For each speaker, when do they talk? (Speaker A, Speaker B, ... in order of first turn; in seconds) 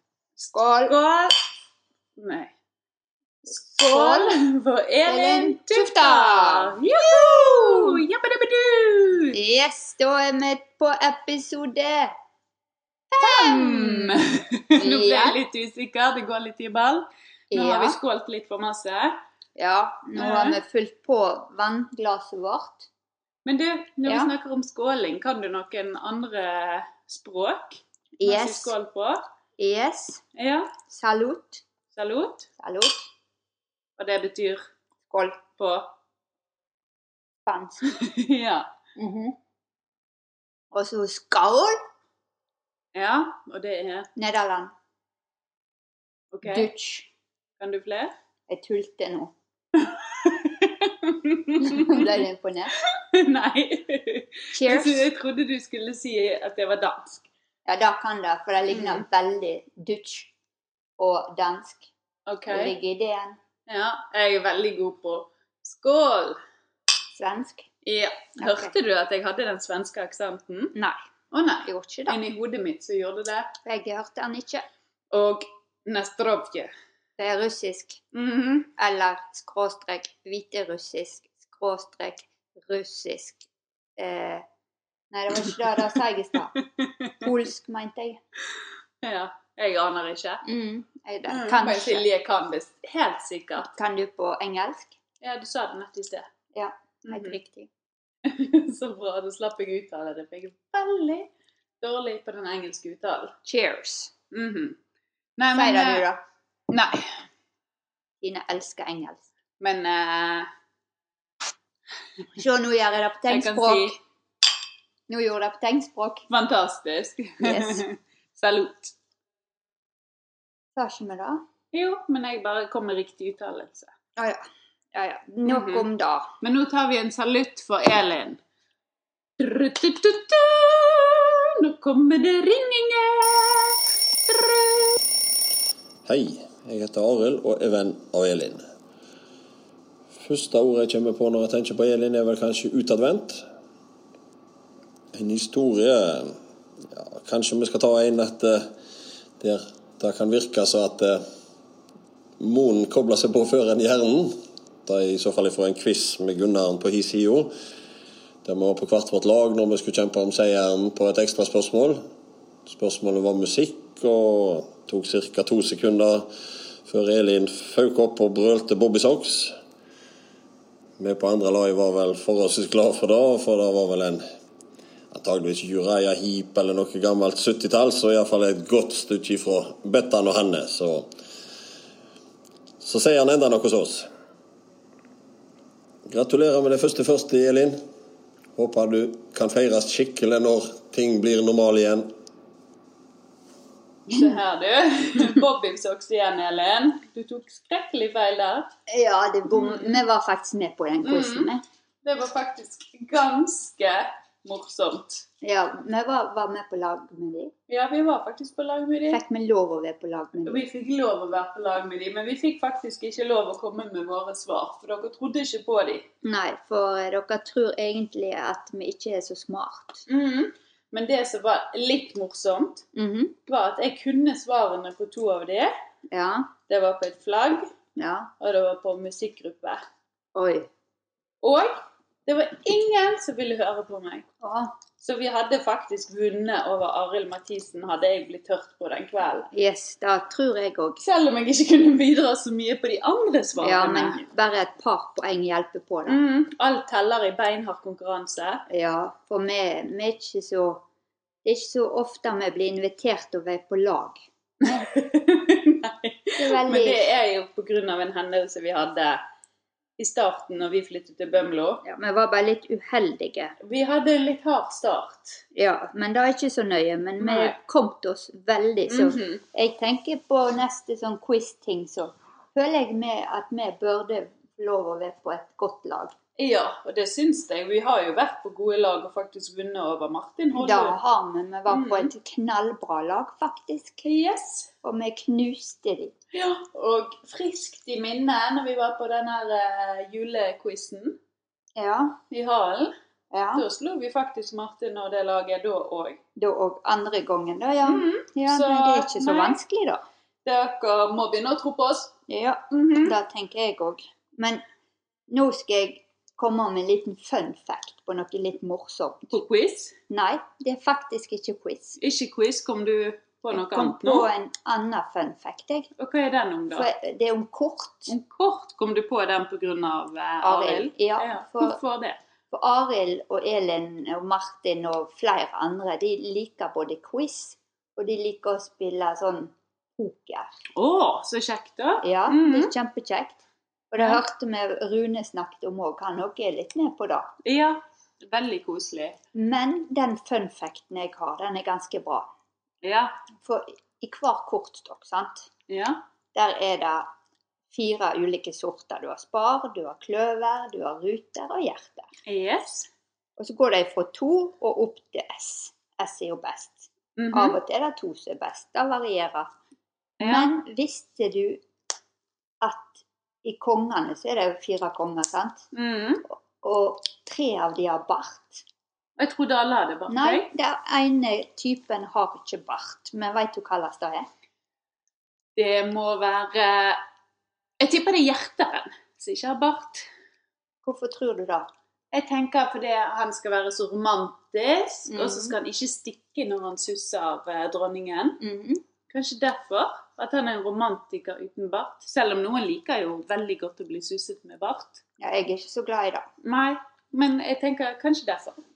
Speaker A: 0.4-1.3, 2.2-2.5, 3.5-9.4, 13.1-19.2, 20.1-20.6, 23.4-29.2, 30.4-30.7, 31.9-32.5, 34.0-34.6, 35.6-35.9, 37.9-38.7, 42.9-44.1, 46.3-46.7, 47.6-48.1, 49.8-52.1, 53.0-57.2, 58.7-59.0, 62.3-62.8, 63.7-66.4, 67.8-70.8, 71.3-73.5, 75.1-76.7, 78.1-78.7, 86.8-87.3, 89.0-90.5, 91.3-93.7, 95.2-96.3, 97.0-97.4, 98.2-101.3, 101.8-103.3, 104.3-104.8, 105.4-106.1, 106.7-107.2, 109.6-110.5, 113.3-114.0, 116.3-118.9, 121.7-123.9, 125.5-125.9, 126.4-128.4, 129.4-135.0, 194.1-198.7, 199.5-200.0, 201.0-201.5, 202.0-205.2, 207.7-209.2, 210.5-216.1, 220.1-222.8, 223.5-225.8, 226.7-227.7, 228.4-229.8, 231.4-234.2, 235.0-239.5, 241.0-244.2, 246.1-248.6, 254.7-259.2, 260.0-261.8, 263.6-265.4, 267.2-267.6, 268.9-269.4, 276.4-281.0, 281.7-282.1, 284.0-284.7, 286.3-291.2, 292.3-292.9, 293.6-296.2, 297.9-299.6, 300.4-302.1, 302.7-303.1, 309.3-309.9, 312.0-314.3, 316.0-316.9, 318.1-322.2, 330.8-332.7, 337.4-339.2, 342.8-343.1, 345.7-346.0, 352.3-352.9, 357.2-357.6, 360.2-360.5, 365.7-366.2, 369.2-370.5, 375.6-377.0, 377.8-380.1, 382.1-388.4, 389.1-395.0, 396.4-398.6
Speaker B: 0.5-0.9, 3.5-4.4, 5.1-8.0, 9.3-12.1, 13.2-14.2, 14.8-15.4, 17.5-18.0, 19.6-22.9, 24.1-24.3, 28.2-28.7, 29.6-30.2, 30.9-31.6, 32.6-33.0, 35.1-35.4, 37.5-37.9, 39.0-39.4, 40.7-41.8, 44.2-44.7, 46.4-47.1, 48.5-49.3, 51.6-52.8, 54.5-55.1, 57.7-60.3, 61.0-61.9, 62.5-63.4, 67.1-67.7, 68.4-68.7, 70.8-71.0, 71.6-72.2, 73.7-74.7, 77.2-78.0, 78.8-83.5, 84.0-84.5, 85.1-86.5, 87.2-88.2, 90.5-92.1, 93.7-95.0, 96.5-97.7, 103.5-104.1, 105.5-106.2, 108.2-109.2, 112.4-114.0, 115.1-116.2, 117.4-117.8, 120.8-121.4, 124.2-126.3, 198.9-201.6, 205.4-207.5, 209.1-210.7, 216.2-220.1, 222.9-223.4, 226.1-226.5, 228.0-228.3, 230.3-230.7, 234.4-234.8, 239.5-241.0, 243.6-246.2, 248.7-250.8, 251.4-254.9, 256.4-257.1, 261.8-263.6, 265.5-276.1, 280.5-284.1, 284.8-286.1, 291.8-292.2, 293.3-293.6, 296.4-300.0, 302.3-304.6, 305.3-309.4, 310.1-312.0, 313.5-315.9, 316.7-318.1, 320.4-321.8, 322.5-330.5, 332.0-337.3, 339.3-342.3, 343.4-345.5, 346.3-347.1, 347.7-352.1, 353.4-359.5, 360.2-361.6, 362.6-365.6, 366.3-368.6, 370.1-374.3, 380.8-381.7, 385.1-385.5, 388.4-388.8, 395.2-396.3
Speaker C: 136.1-138.7, 140.2-143.4, 145.1-146.4, 146.9-148.7, 149.4-151.2, 152.4-157.5, 158.4-162.0, 162.7-166.3, 166.9-169.6, 171.0-174.2, 175.1-181.1, 182.8-184.1, 186.1-187.8, 188.6-192.1